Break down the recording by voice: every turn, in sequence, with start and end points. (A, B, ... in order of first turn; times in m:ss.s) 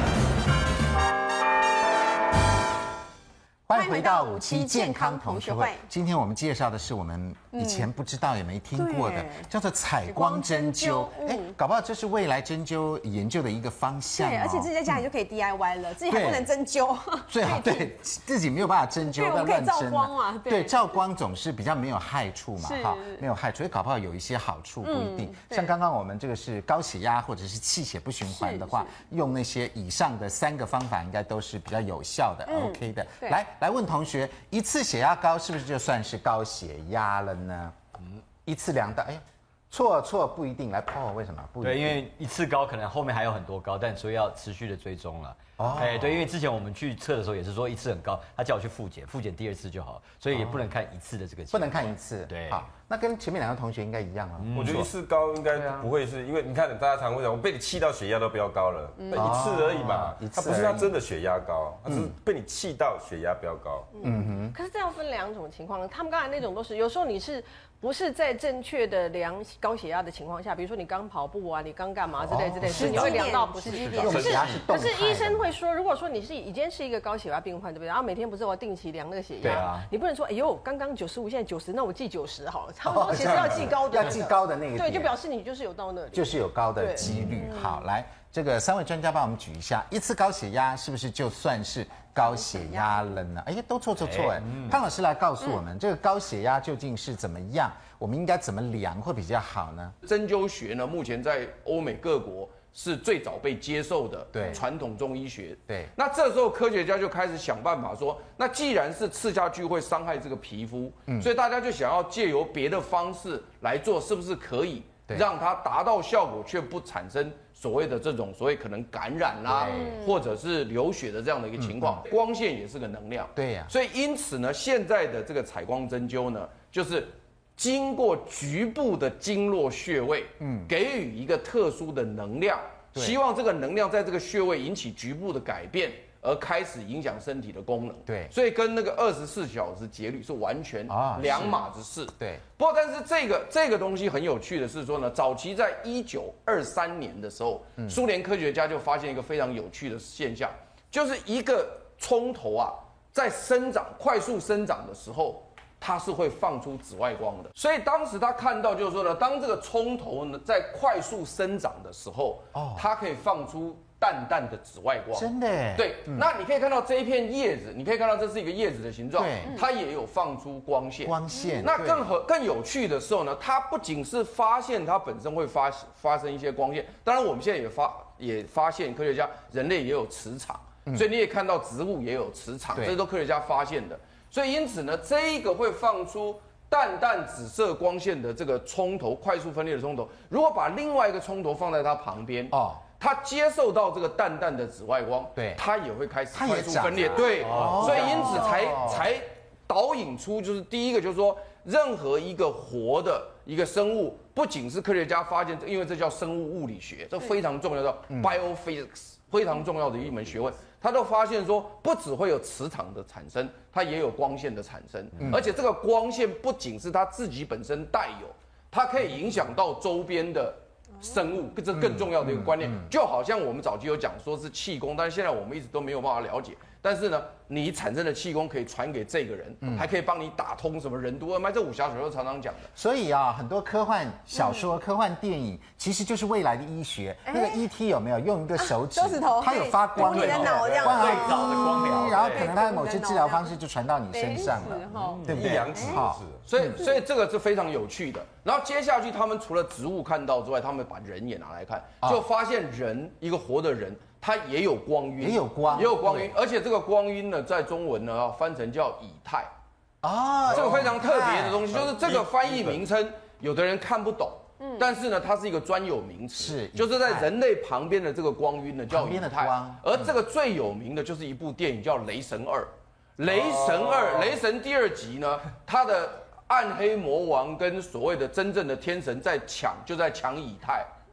0:03.7-0:15.0 A
0:03.7-0:05.8 B
0:07.5-0:07.9 B
0:08.8-0:09.5 B
0:10.0-0:11.5 B
0:14.2-0:17.9 B
0:16.0-0:16.5 A
0:17.3-0:37.8 A
0:19.0-0:20.8 B
0:22.6-0:23.2 B
0:24.8-0:25.7 B
0:28.3-0:28.9 B
0:32.5-0:33.4 B
0:38.4-0:42.0 A
0:41.6-0:52.6 C
0:45.6-0:46.3 A
0:50.3-0:50.6 A
0:51.5-0:54.9 A
0:54.4-0:54.9 C
0:54.5-1:03.9 D
0:55.5-0:55.9 C
0:59.1-1:01.0 A
1:01.8-1:02.1 A
1:03.9-1:27.1 E
1:04.0-1:04.6 A
1:12.2-1:13.3 A
1:12.6-1:14.4 B
1:12.8-1:13.2 C
1:13.7-1:14.1 C
1:13.9-1:14.6 D
1:13.9-1:15.5 A
1:19.4-1:19.7 A
1:19.4-1:19.9 C
1:22.8-1:25.2 A
1:23.2-1:23.6 D
1:26.1-1:39.9 A
1:27.0-1:27.4 C
1:27.4-1:27.7 B
1:34.0-1:34.8 C
1:40.0-3:52.7 F
1:44.3-1:44.6 A
1:59.4-2:00.0 A
1:59.7-2:00.1 B
2:01.6-2:02.0 A
2:03.3-2:03.7 A
2:10.4-2:10.7 A
2:18.1-2:18.3 A
2:20.9-2:22.4 A
2:42.5-2:42.9 A
2:45.1-2:46.3 A
2:49.2-2:49.6 A
2:51.0-2:52.1 A
2:51.3-2:51.6 B
3:12.5-3:12.8 A
3:15.3-3:15.6 A
3:16.3-3:19.1 A
3:17.4-3:18.5 C
3:28.1-3:28.4 A
3:35.2-3:35.5 A
3:41.7-3:42.9 A
3:49.6-3:49.9 A
3:52.7-4:06.8 A
3:54.4-3:54.6 B
3:57.3-3:57.6 B
3:58.6-4:03.5 B
4:00.0-4:00.7 F
4:00.6-4:02.6 C
4:04.1-4:06.0 B
4:05.0-4:05.8 C
4:05.2-4:06.4 D
4:06.4-4:19.5 F
4:15.2-4:16.3 A
4:20.0-4:21.8 A
4:20.5-4:40.9 F
4:20.5-4:20.8 D
4:21.8-4:22.8 D
4:24.6-4:24.9 B
4:26.3-4:27.3 A
4:28.9-4:30.1 A